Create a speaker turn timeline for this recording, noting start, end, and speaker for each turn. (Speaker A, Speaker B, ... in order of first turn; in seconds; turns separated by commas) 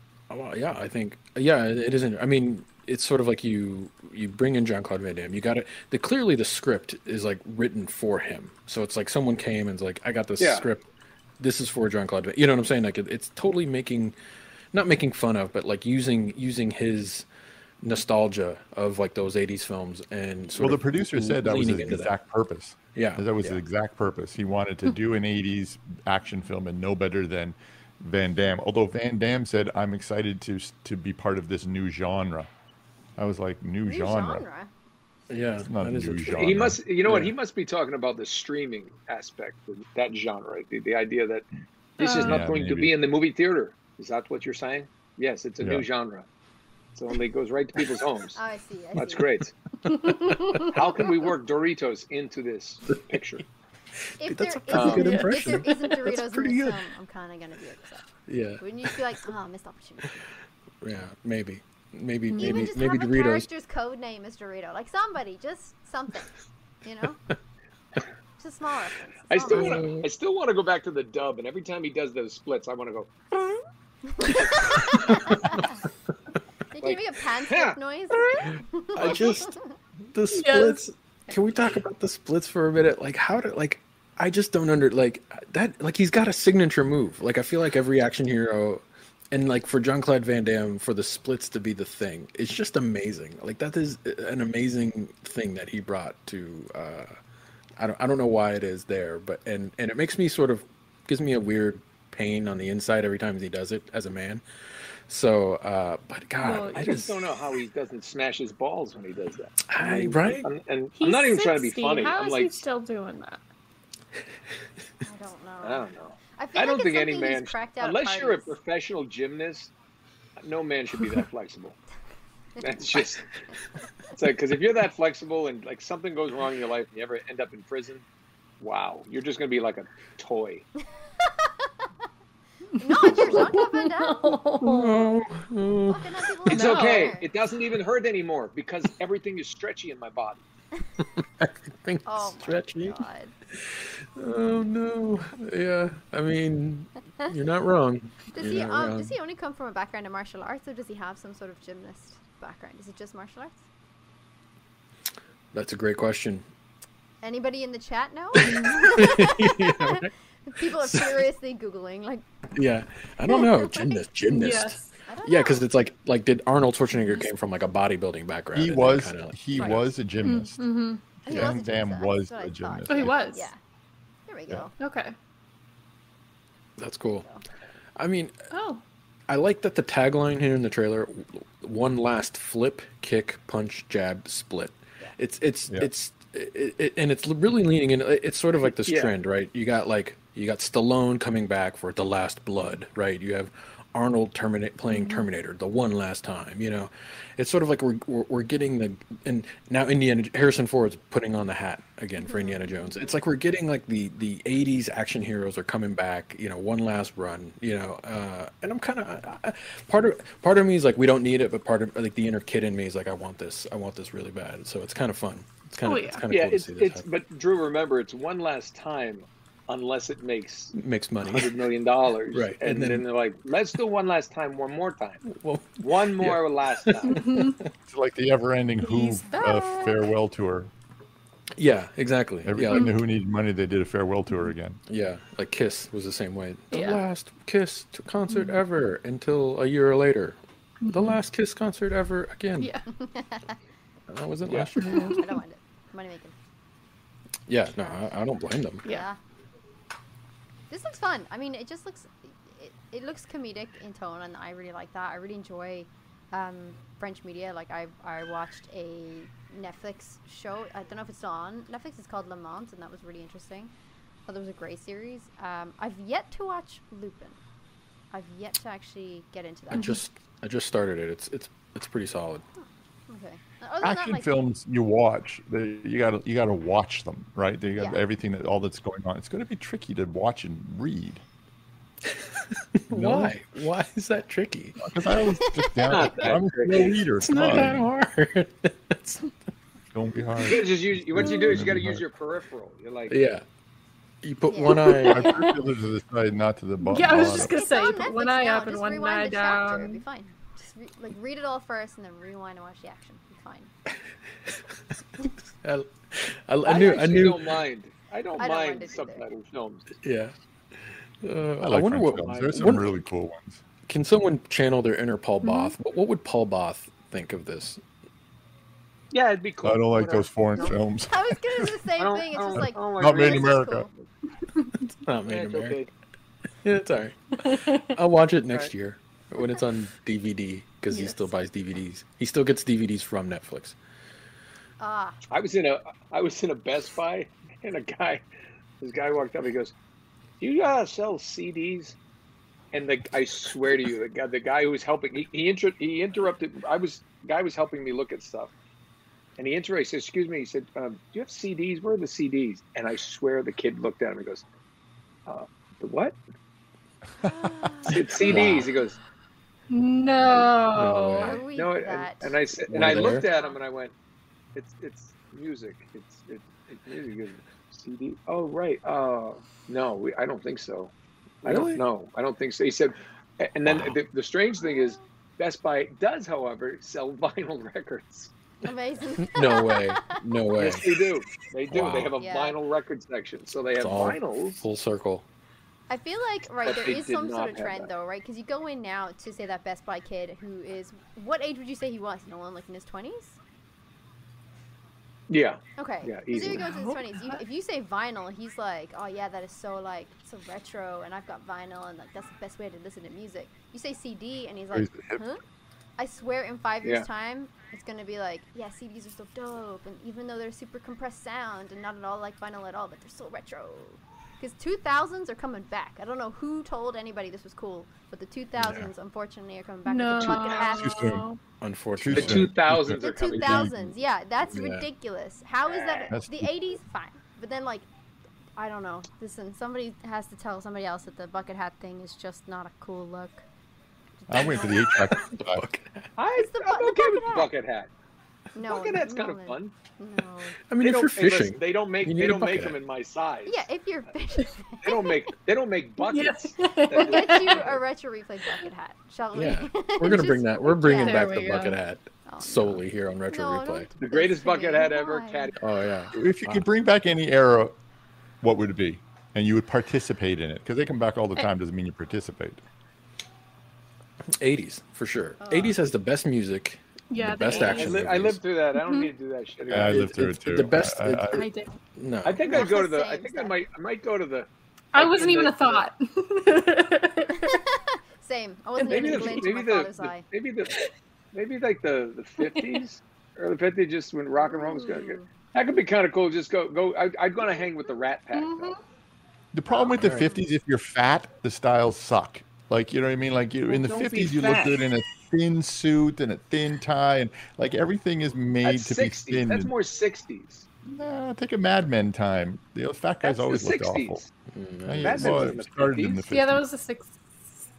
Speaker A: 0.3-10.8, Speaker B: 10.4-10.7, Speaker A: 11.4-14.1, Speaker A: 14.7-17.2, Speaker A: 17.8-22.1, Speaker C: 20.6-32.5, Speaker A: 22.9-23.6, Speaker C: 33.2-34.4, Speaker D: 33.8-34.7, Speaker A: 35.3-37.3, Speaker C: 35.6-36.8, Speaker B: 36.3-41.5, Speaker E: 42.0-42.5, Speaker B: 42.0-46.2, Speaker C: 42.2-42.9, Speaker C: 45.6-45.9, Speaker B: 46.9-48.4, Speaker D: 48.4-49.3, Speaker B: 48.9-49.5, Speaker A: 50.3-50.6, Speaker D: 50.3-50.7, Speaker B: 50.5-53.4, Speaker D: 54.2-58.0, Speaker A: 54.2-56.8, Speaker B: 54.7-55.1, Speaker E: 54.9-55.6, Speaker A: 58.3-59.0, Speaker D: 58.6-60.3, Speaker A: 60.8-63.5, Speaker E: 62.3-62.7, Speaker D: 62.4-66.3, Speaker D: 66.8-67.2, Speaker D: 68.4-69.9, Speaker B: 69.3-73.1, Speaker A: 69.5-70.1, Speaker D: 74.1-75.8, Speaker B: 74.6-74.9, Speaker A: 75.0-75.6, Speaker D: 76.7-79.6, Speaker B: 76.8-77.8, Speaker A: 78.9-79.5, Speaker B: 79.0-79.4, Speaker A: 80.1-97.2, Speaker E: 80.3-80.8, Speaker A: 97.8-104.4, Speaker A: 105.1-107.2, Speaker E: 106.4-107.1, Speaker B: 106.8-112.6, Speaker A: 109.7-110.5, Speaker E: 111.0-113.4, Speaker D: 115.0-118.6, Speaker B: 115.6-119.7, Speaker B: 120.4-121.8, Speaker B: 122.6-123.2, Speaker B: 124.1-128.0, Speaker B: 128.6-130.7, Speaker D: 131.2-131.7, Speaker E: 132.7-135.1, Speaker D: 132.8-134.4, Speaker A: 134.6-136.8, Speaker D: 135.9-137.3, Speaker B: 136.5-140.4, Speaker E: 136.5-137.1, Speaker A: 141.2-143.0, Speaker D: 142.0-143.3, Speaker A: 143.6-149.1, Speaker D: 148.3-153.6, Speaker A: 155.5-156.4, Speaker D: 157.2-162.2, Speaker A: 158.4-160.1, Speaker A: 160.8-161.2, Speaker A: 162.5-169.9, Speaker D: 163.3-164.0, Speaker E: 164.3-164.9, Speaker D: 165.0-165.6, Speaker C: 168.5-170.6, Speaker E: 170.2-171.5, Speaker C: 171.2-173.2, Speaker D: 171.2-173.6, Speaker E: 172.9-173.5, Speaker D: 174.3-174.7, Speaker E: 174.8-175.1, Speaker A: 176.8-177.3, Speaker A: 178.0-178.3, Speaker E: 178.5-178.8, Speaker A: 179.3-217.0, Speaker B: 188.8-189.1, Speaker D: 202.3-202.8, Speaker E: 215.8-216.3, Speaker B: 216.3-225.2, Speaker A: 220.7-221.6, Speaker A: 222.3-223.0, Speaker A: 225.3-227.7, Speaker B: 225.8-227.2, Speaker E: 227.1-227.6, Speaker C: 227.9-230.7, Speaker E: 228.8-230.1, Speaker A: 231.6-232.9, Speaker C: 232.4-234.8, Speaker A: 234.9-240.4, Speaker E: 236.7-237.0, Speaker E: 238.3-238.6, Speaker E: 240.8-241.2, Speaker A: 240.9-242.7, Speaker E: 242.6-242.9, Speaker D: 242.9-243.6, Speaker A: 244.1-245.2, Speaker B: 244.5-244.7, Speaker D: 244.8-246.3, Speaker E: 244.8-245.4, Speaker A: 247.5-248.8, Speaker D: 248.8-249.2, Speaker D: 250.7-263.7, Speaker D: 264.3-267.4, Speaker D: 268.1-270.0, Speaker A: 269.7-272.4, Speaker E: 269.7-270.0, Speaker D: 272.6-274.3, Speaker C: 273.8-281.2, Speaker D: 277.7-278.0, Speaker A: 282.1-284.8, Speaker C: 282.9-283.4, Speaker C: 284.8-287.9, Speaker D: 285.4-285.9, Speaker B: 285.9-287.0, Speaker A: 287.2-289.3, Speaker C: 289.9-292.0, Speaker B: 290.4-293.2, Speaker A: 293.1-293.4, Speaker A: 294.2-295.5, Speaker D: 294.5-295.4, Speaker E: 294.9-295.4, Speaker C: 295.1-297.5, Speaker E: 296.8-300.0, Speaker D: 297.4-303.7, Speaker A: 305.2-307.6, Speaker B: 306.6-309.9, Speaker D: 308.4-309.2, Speaker A: 310.0-310.3, Speaker A: 311.2-312.9, Speaker C: 311.6-313.6, Speaker A: 313.9-317.8, Speaker E: 315.4-315.8, Speaker B: 319.1-320.7, Speaker C: 319.6-321.7, Speaker D: 321.1-323.9, Speaker B: 322.0-324.1, Speaker C: 322.5-323.9, Speaker A: 325.0-325.8, Speaker B: 325.3-325.9, Speaker A: 326.6-333.8, Speaker E: 327.4-327.9, Speaker E: 330.9-331.3, Speaker D: 334.8-335.2, Speaker B: 335.3-338.2, Speaker B: 338.8-339.7, Speaker B: 340.4-341.9, Speaker B: 342.7-348.5, Speaker B: 349.4-354.4, Speaker B: 355.2-356.2, Speaker D: 357.2-358.7, Speaker B: 357.9-359.0, Speaker A: 358.2-358.7, Speaker E: 359.7-361.4, Speaker A: 360.7-361.4, Speaker D: 361.2-363.6, Speaker B: 361.5-363.9, Speaker A: 362.7-363.3, Speaker B: 364.5-378.3, Speaker A: 371.4-371.8, Speaker A: 373.6-374.0, Speaker D: 378.6-380.2, Speaker A: 379.2-381.0, Speaker B: 380.6-384.6, Speaker A: 381.7-382.1, Speaker D: 382.2-382.6, Speaker A: 383.8-385.2, Speaker D: 385.9-393.4, Speaker B: 386.6-387.9, Speaker B: 395.3-396.7, Speaker D: 395.8-405.4, Speaker E: 396.5-397.4, Speaker C: 404.7-405.2, Speaker D: 406.0-421.0, Speaker A: 418.6-418.9, Speaker E: 419.9-421.4, Speaker C: 420.7-421.2, Speaker A: 421.6-422.5, Speaker C: 421.9-423.9, Speaker B: 422.1-423.7, Speaker D: 423.0-427.9, Speaker A: 424.5-424.9, Speaker B: 425.6-426.1, Speaker C: 426.1-426.5, Speaker D: 428.6-433.4, Speaker D: 434.2-435.0, Speaker C: 434.3-435.6, Speaker A: 434.8-436.1, Speaker B: 436.2-437.9, Speaker D: 436.3-437.5, Speaker D: 438.5-440.6, Speaker B: 438.6-439.7, Speaker A: 440.7-442.8, Speaker B: 440.8-443.7, Speaker D: 443.5-445.1, Speaker B: 444.8-447.8, Speaker E: 446.1-447.6, Speaker D: 446.9-451.3, Speaker A: 449.3-453.9, Speaker E: 450.9-451.8, Speaker D: 452.2-455.5, Speaker B: 454.0-455.6, Speaker A: 455.6-456.6, Speaker C: 456.1-457.7, Speaker C: 458.4-462.6, Speaker A: 464.4-468.4, Speaker D: 465.4-465.8, Speaker E: 467.1-468.0, Speaker B: 467.5-470.1, Speaker E: 468.7-469.1, Speaker C: 469.7-471.4, Speaker A: 469.7-471.4, Speaker E: 471.3-471.8, Speaker A: 471.9-472.4, Speaker B: 472.2-475.8, Speaker D: 472.4-473.5, Speaker E: 474.9-477.6, Speaker D: 477.3-480.2, Speaker E: 478.8-479.5, Speaker B: 478.9-480.7, Speaker B: 481.3-488.7, Speaker E: 482.4-482.8, Speaker D: 484.4-485.3, Speaker E: 488.3-488.8, Speaker C: 489.5-499.7, Speaker A: 490.0-490.3, Speaker B: 493.7-494.8, Speaker B: 498.6-500.7, Speaker C: 500.8-504.2, Speaker B: 503.2-504.3, Speaker A: 504.5-505.6, Speaker C: 504.8-506.6, Speaker B: 505.0-506.3, Speaker E: 506.3-507.2